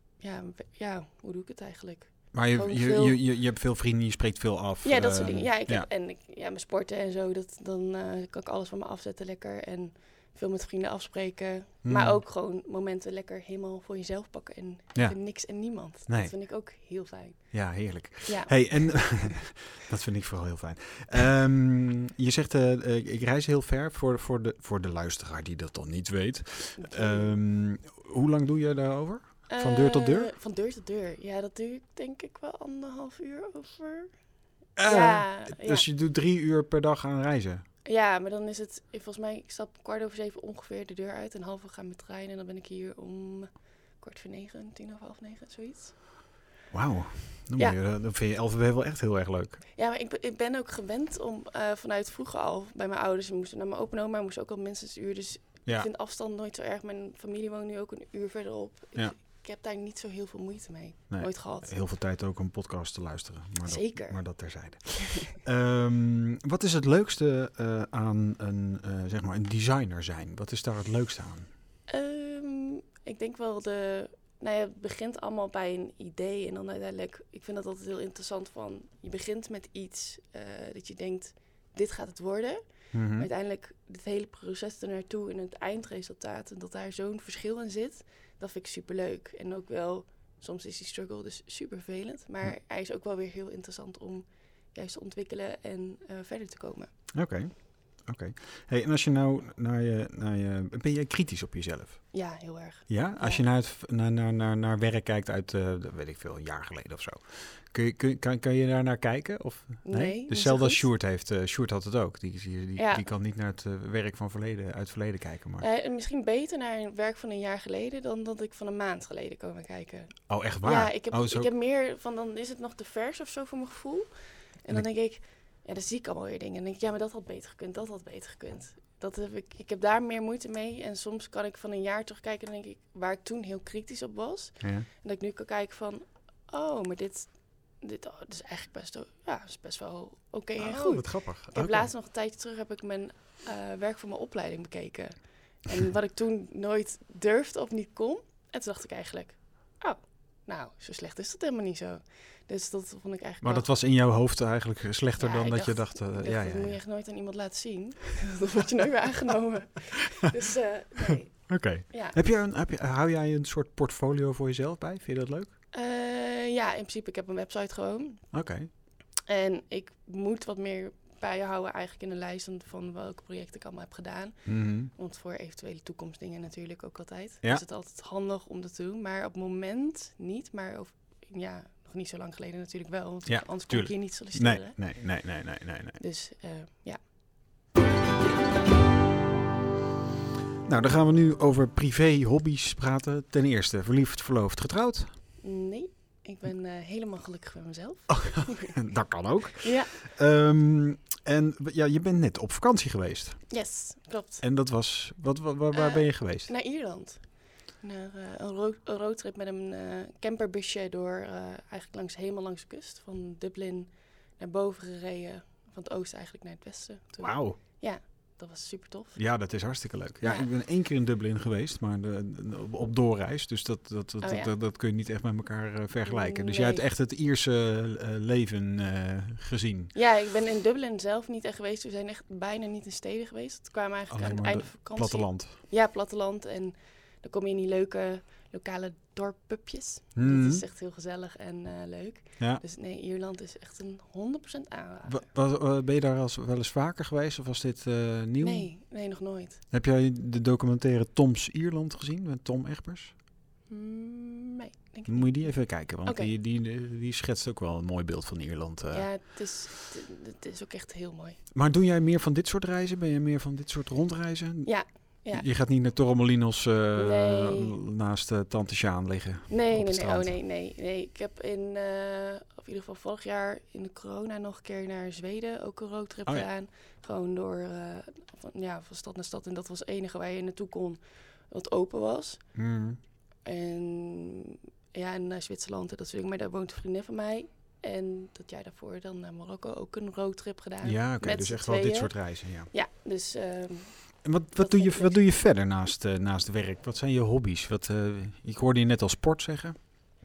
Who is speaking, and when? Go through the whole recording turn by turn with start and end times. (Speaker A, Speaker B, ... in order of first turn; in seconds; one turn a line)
Speaker A: 0.2-3.2
Speaker B: 2.3-5.9
Speaker A: 4.8-19.3
Speaker B: 11.8-12.2
Speaker B: 14.9-16.6
Speaker B: 17.5-30.3
Speaker A: 26.8-27.4
Speaker A: 29.5-34.2
Speaker B: 34.8-37.6
Speaker A: 34.8-35.9
Speaker A: 37.9-46.0
Speaker B: 46.7-49.6
Speaker A: 49.8-61.7
Speaker B: 61.1-71.5
Speaker A: 63.6-64.7
Speaker A: 71.9-96.9
Speaker B: 82.9-83.3
Speaker B: 97.1-102.2
Speaker A: 102.1-103.4
Speaker B: 102.9-115.7
Speaker A: 109.8-110.9
Speaker A: 112.8-113.0
Speaker A: 115.6-153.7
Speaker B: 120.3-121.5
Speaker B: 134.6-134.9
Speaker B: 140.6-141.9
Speaker B: 153.4-156.8
Speaker A: 155.2-162.2
Speaker B: 161.5-165.6
Speaker A: 165.7-168.3
Speaker B: 168.3-168.7
Speaker A: 169.2-185.2
Speaker B: 174.5-174.9
Speaker B: 183.2-186.0
Speaker A: 186.0-187.0
Speaker B: 190.6-195.1
Speaker A: 195.4-198.8
Speaker B: 198.1-203.6
Speaker A: 199.6-200.0
Speaker A: 203.5-204.4
Speaker B: 204.4-206.5
Speaker A: 205.7-219.6
Speaker B: 217.2-217.6
Speaker B: 219.2-229.9
Speaker A: 220.2-220.5
Speaker A: 224.2-224.5
Speaker A: 226.0-226.8
Speaker A: 229.9-245.2
Speaker B: 234.1-235.6
Speaker B: 240.2-240.6
Speaker B: 245.0-248.8
Speaker A: 248.4-249.6
Speaker B: 249.7-253.1
Speaker A: 253.7-256.3
Speaker B: 255.1-259.5
Speaker A: 258.9-261.4
Speaker B: 261.5-270.4
Speaker A: 264.6-265.5
Speaker A: 267.0-267.8
Speaker A: 269.5-282.6
Speaker B: 282.6-283.0
Speaker A: 283.4-295.2
Speaker B: 290.8-292.7
Speaker B: 294.2-299.8